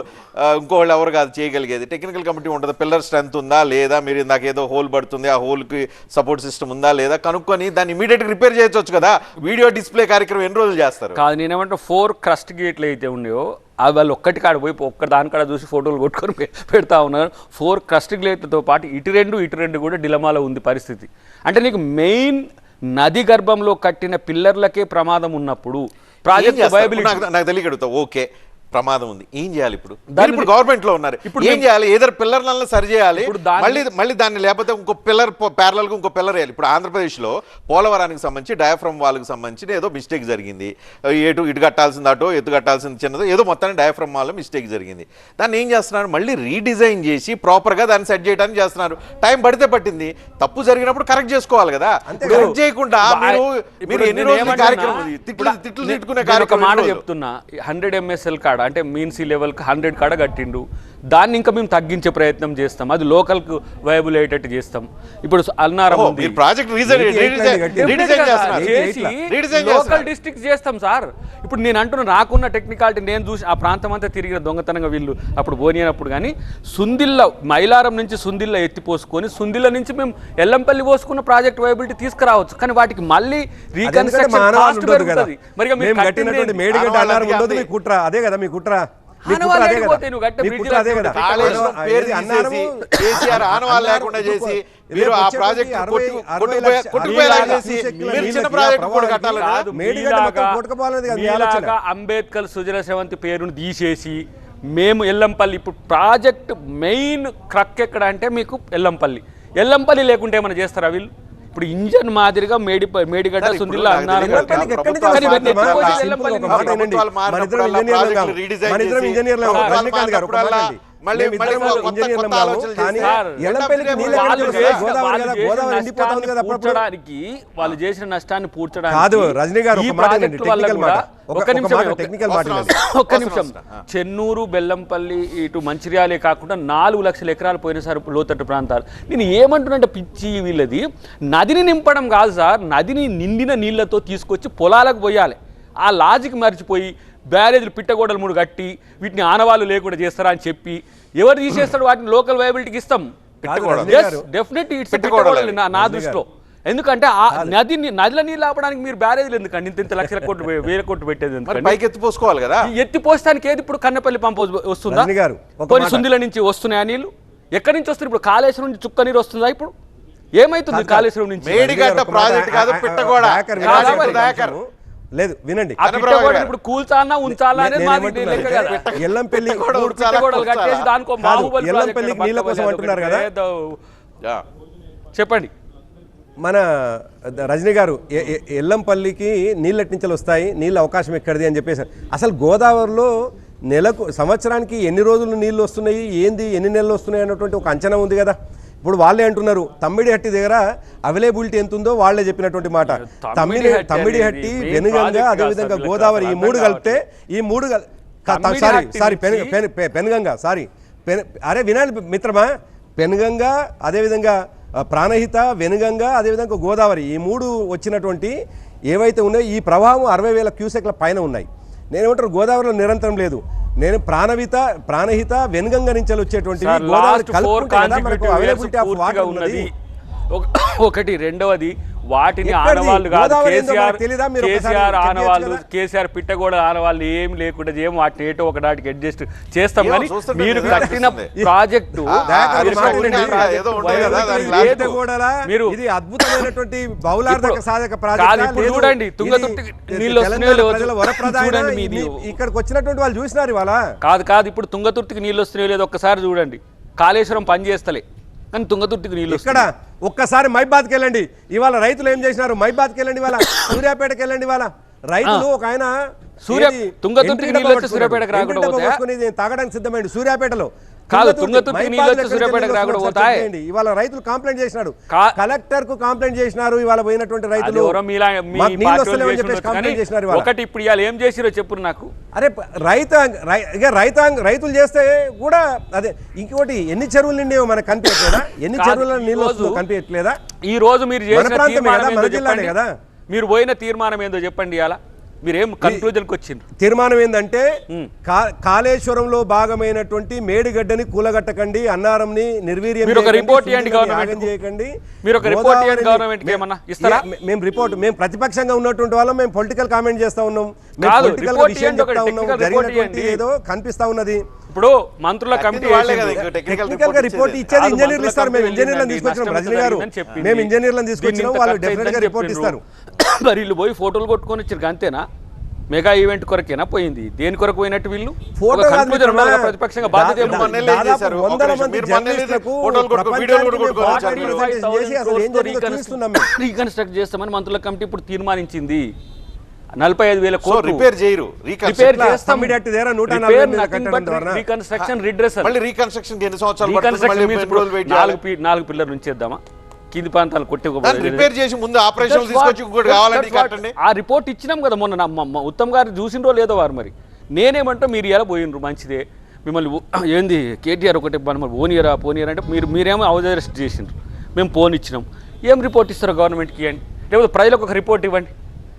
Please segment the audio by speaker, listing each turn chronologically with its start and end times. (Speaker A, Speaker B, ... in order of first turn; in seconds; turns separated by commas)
Speaker A: 0.4-11.2, Speaker B: 11.2-27.2, Speaker A: 26.3-57.0, Speaker B: 30.1-30.5, Speaker B: 31.2-31.6, Speaker B: 33.1-33.9, Speaker C: 52.1-52.5, Speaker B: 52.2-66.3, Speaker A: 65.9-70.1, Speaker C: 66.8-69.1, Speaker B: 67.7-86.7, Speaker C: 83.8-101.7, Speaker A: 86.7-87.7, Speaker B: 89.3-91.6, Speaker A: 91.1-99.6, Speaker B: 97.0-98.5, Speaker B: 99.3-104.2, Speaker B: 104.7-116.8, Speaker A: 113.4-124.9, Speaker C: 114.2-126.8, Speaker B: 119.4-119.8, Speaker B: 121.4-121.9, Speaker B: 123.0-161.8, Speaker C: 128.9-132.8, Speaker A: 132.2-133.8, Speaker C: 153.4-154.2, Speaker A: 153.6-154.0, Speaker A: 154.9-155.7, Speaker C: 155.7-156.2, Speaker C: 157.3-157.5, Speaker A: 161.5-162.6, Speaker B: 162.6-165.1, Speaker C: 164.9-166.0, Speaker B: 165.7-169.7, Speaker B: 170.3-171.7, Speaker C: 170.7-175.8, Speaker A: 171.4-174.6, Speaker B: 173.6-174.3, Speaker B: 175.8-178.8, Speaker A: 175.8-176.5, Speaker C: 177.2-179.8, Speaker A: 178.2-180.9, Speaker B: 179.7-183.8, Speaker C: 181.2-183.3, Speaker B: 185.1-185.5, Speaker C: 186.4-193.1, Speaker C: 193.7-218.3, Speaker B: 202.8-207.0, Speaker B: 208.3-209.5, Speaker C: 218.9-229.7, Speaker B: 226.6-229.7, Speaker B: 230.3-245.8, Speaker C: 232.4-235.6, Speaker A: 239.8-241.3, Speaker C: 240.6-241.5, Speaker A: 242.1-245.0, Speaker C: 242.2-253.8, Speaker B: 247.2-247.6, Speaker B: 248.1-252.3, Speaker B: 254.0-259.6, Speaker C: 259.3-265.9, Speaker B: 263.4-263.8, Speaker B: 266.4-269.0, Speaker C: 266.4-278.0, Speaker B: 271.1-273.5, Speaker B: 275.1-275.4, Speaker B: 277.6-282.1, Speaker C: 278.5-280.5, Speaker C: 282.3-290.4, Speaker B: 288.7-289.8, Speaker B: 290.6-292.7, Speaker C: 291.3-292.9, Speaker B: 293.3-296.6, Speaker C: 295.8-296.1, Speaker C: 296.8-297.7, Speaker C: 298.2-314.4, Speaker B: 303.0-304.5, Speaker B: 305.2-307.2, Speaker B: 311.0-313.4, Speaker B: 314.7-316.4, Speaker A: 315.5-317.7, Speaker C: 316.3-322.8, Speaker B: 317.7-325.2, Speaker B: 325.9-330.8, Speaker C: 328.6-336.5, Speaker A: 330.4-334.7, Speaker B: 334.0-339.1, Speaker B: 340.0-341.1, Speaker A: 340.6-342.2, Speaker B: 341.9-345.7, Speaker C: 341.9-344.6, Speaker A: 344.9-348.4, Speaker B: 346.8-349.6, Speaker B: 350.1-351.5, Speaker A: 351.0-353.9, Speaker B: 352.2-368.5